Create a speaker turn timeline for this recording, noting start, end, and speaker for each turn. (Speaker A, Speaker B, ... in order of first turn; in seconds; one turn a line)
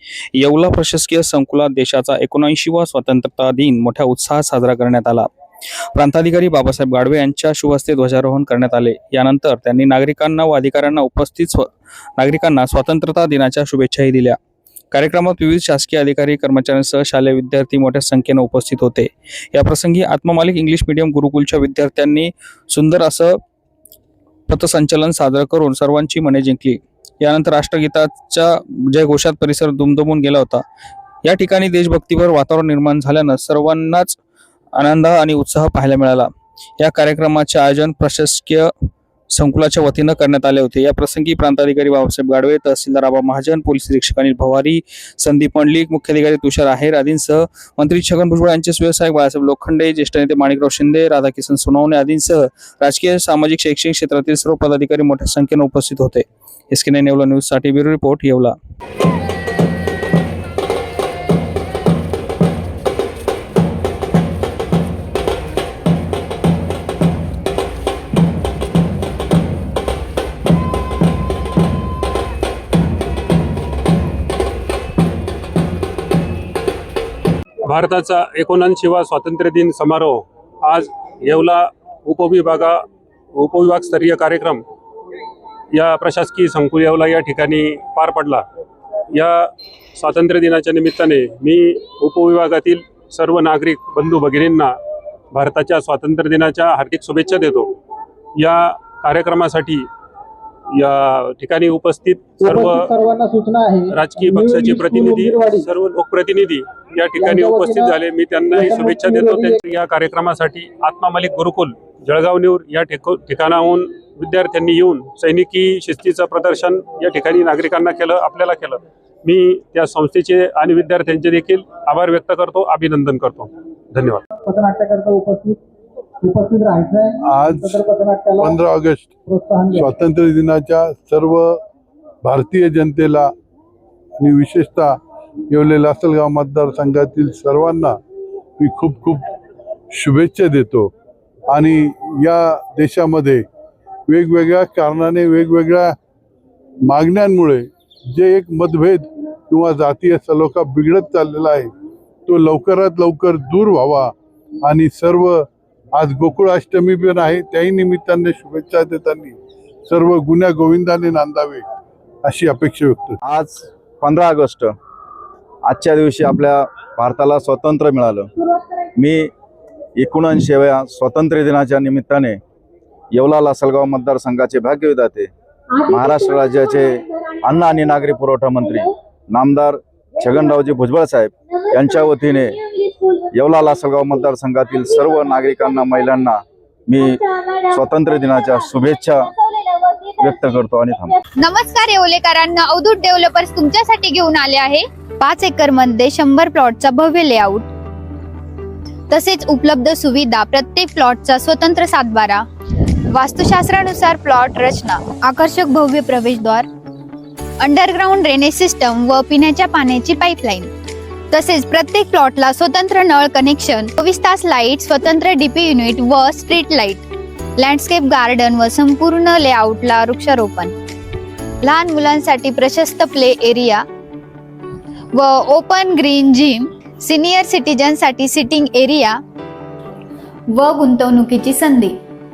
Speaker A: 0.3-5.3
Speaker A: 5.9-14.4
Speaker A: 14.9-23.4
Speaker A: 24.5-30.6
Speaker A: 31.2-34.2
Speaker A: 34.7-38.7
Speaker A: 39.3-58.5
Speaker B: 77.7-82.8
Speaker B: 83.3-84.6
Speaker B: 85.7-88.4
Speaker B: 89.1-94.7
Speaker B: 95.3-97.7
Speaker B: 98.4-99.9
Speaker B: 100.8-102.9
Speaker C: 102.4-105.7
Speaker B: 103.9-124.2
Speaker C: 107.2-108.0
Speaker C: 108.5-109.6
Speaker C: 124.4-125.6
Speaker C: 126.2-128.6
Speaker D: 127.2-131.6
Speaker C: 129.3-129.8
Speaker D: 132.2-133.3
Speaker D: 134.2-134.9
Speaker D: 135.5-138.0
Speaker D: 138.6-139.2
Speaker D: 139.9-140.9
Speaker D: 141.5-143.4
Speaker D: 144.1-145.9
Speaker D: 146.9-151.7
Speaker D: 152.3-154.1
Speaker D: 154.6-155.4
Speaker D: 155.9-161.6
Speaker D: 162.2-163.2
Speaker E: 163.2-164.7
Speaker E: 165.7-168.3
Speaker E: 168.9-169.3
Speaker E: 170.0-172.4
Speaker E: 173.1-175.3
Speaker E: 175.8-182.7
Speaker E: 183.3-189.3
Speaker E: 190.2-191.2
Speaker F: 191.4-197.7
Speaker F: 199.1-202.4
Speaker F: 203.1-206.7
Speaker F: 207.6-210.7
Speaker F: 211.3-217.1
Speaker F: 217.6-220.7
Speaker F: 221.6-223.8
Speaker F: 225.1-229.2
Speaker F: 230.5-231.9